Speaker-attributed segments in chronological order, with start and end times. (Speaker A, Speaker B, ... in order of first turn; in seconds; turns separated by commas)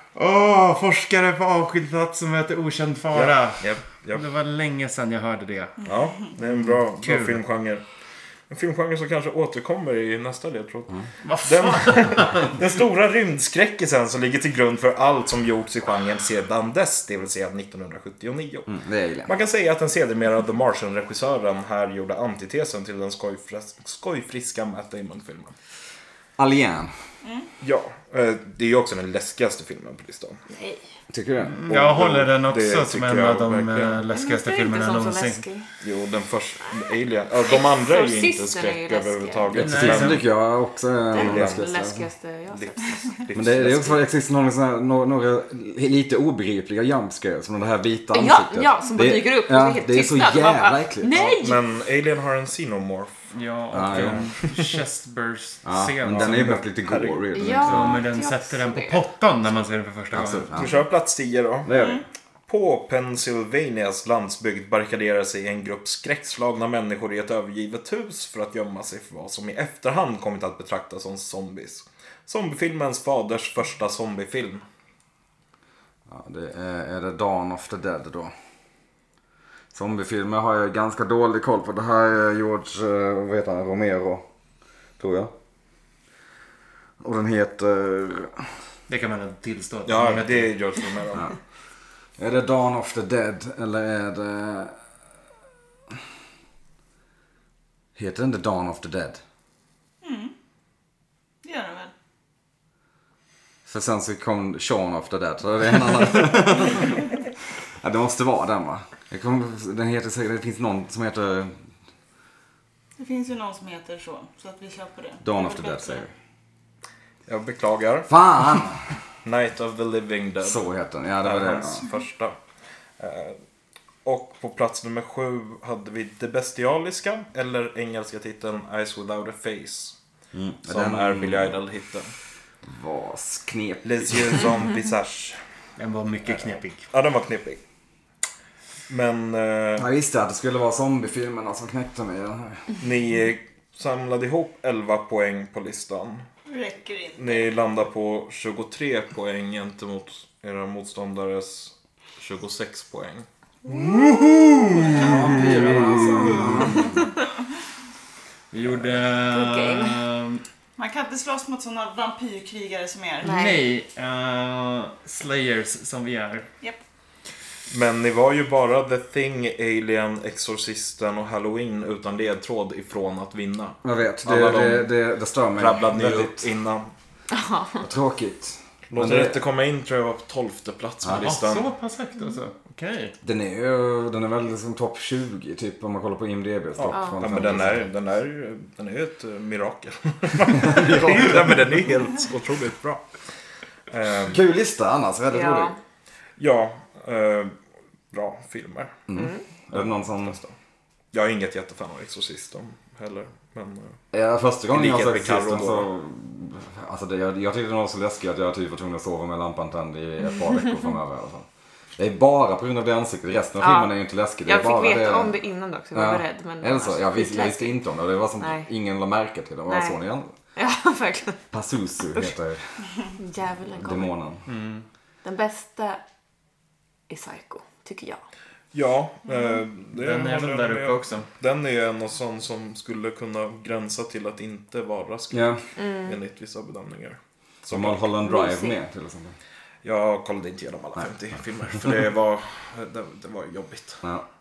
Speaker A: 0.1-7.4, Speaker B: 3.1-4.2, Speaker B: 5.8-7.8, Speaker B: 8.5-18.7, Speaker A: 11.2-12.6, Speaker C: 18.7-19.3, Speaker B: 19.2-25.6, Speaker C: 26.4-26.9, Speaker D: 27.2-27.5, Speaker B: 27.6-30.4, Speaker E: 30.5-30.8, Speaker C: 31.1-31.6, Speaker A: 31.4-35.5, Speaker B: 31.7-34.0, Speaker E: 34.1-35.7, Speaker B: 35.8-40.2, Speaker E: 37.5-39.6, Speaker C: 39.5-42.1, Speaker A: 39.5-40.3, Speaker E: 41.1-43.1, Speaker B: 41.2-41.6, Speaker B: 42.5-44.0, Speaker C: 43.3-51.2, Speaker E: 48.1-51.6, Speaker B: 51.1-53.2, Speaker A: 53.3-56.7, Speaker C: 53.7-54.3, Speaker B: 53.9-54.7, Speaker C: 55.6-58.0, Speaker B: 56.2-57.2, Speaker E: 57.3-59.0, Speaker A: 57.6-60.7, Speaker C: 60.1-60.8, Speaker B: 60.5-61.8, Speaker C: 61.7-62.0, Speaker D: 61.7-62.0, Speaker B: 62.5-74.6, Speaker C: 76.1-78.3, Speaker C: 79.7-84.2, Speaker C: 85.0-85.3, Speaker C: 87.0-88.5, Speaker A: 88.9-90.7, Speaker B: 89.9-91.3, Speaker C: 92.2-94.8, Speaker C: 98.0-99.2, Speaker D: 100.0-100.3, Speaker D: 101.4-101.9, Speaker C: 103.7-107.2, Speaker C: 107.8-111.6, Speaker D: 113.0-116.0, Speaker C: 115.2-116.1, Speaker B: 117.3-118.1, Speaker C: 118.1-118.9, Speaker B: 119.2-120.7, Speaker C: 120.4-121.9, Speaker B: 121.2-122.4, Speaker B: 123.0-123.4, Speaker B: 124.0-130.0, Speaker C: 130.3-131.5, Speaker B: 130.7-132.1, Speaker C: 132.6-134.4, Speaker B: 133.8-135.4, Speaker A: 135.8-136.9, Speaker B: 136.3-137.6, Speaker B: 138.9-139.9, Speaker C: 139.8-142.7, Speaker B: 142.8-146.3, Speaker D: 146.5-147.5, Speaker B: 147.2-153.3, Speaker C: 153.7-156.8, Speaker D: 153.7-156.9, Speaker B: 154.8-156.8, Speaker A: 158.5-160.4, Speaker E: 159.3-160.0, Speaker D: 160.8-163.5, Speaker E: 163.2-163.7, Speaker A: 163.3-166.5, Speaker B: 167.7-174.9, Speaker C: 173.8-176.4, Speaker B: 175.6-176.9, Speaker E: 177.3-177.8, Speaker C: 177.8-179.4, Speaker B: 178.9-181.7, Speaker C: 181.0-181.3, Speaker A: 181.2-183.2, Speaker C: 183.2-187.9, Speaker B: 186.8-193.1, Speaker E: 186.9-187.2, Speaker C: 190.6-191.6, Speaker B: 193.9-194.4, Speaker C: 194.3-195.7, Speaker E: 195.3-195.8, Speaker B: 196.4-197.6, Speaker B: 198.1-199.0, Speaker C: 199.1-200.4, Speaker E: 199.1-199.4, Speaker B: 199.7-200.5, Speaker B: 201.1-204.0, Speaker C: 204.1-211.5, Speaker B: 204.7-205.9, Speaker C: 212.0-215.4, Speaker E: 213.6-217.8, Speaker C: 215.9-220.3, Speaker E: 218.4-218.7, Speaker E: 219.7-220.0, Speaker E: 220.6-221.5, Speaker C: 221.5-222.7, Speaker E: 223.2-224.2, Speaker C: 223.8-224.4, Speaker A: 224.5-224.9, Speaker E: 225.2-226.0, Speaker E: 227.1-228.2, Speaker B: 228.7-238.0, Speaker A: 229.9-231.3, Speaker C: 235.3-235.6, Speaker E: 235.8-236.2, Speaker C: 237.7-239.4, Speaker E: 238.2-238.8, Speaker B: 239.8-244.0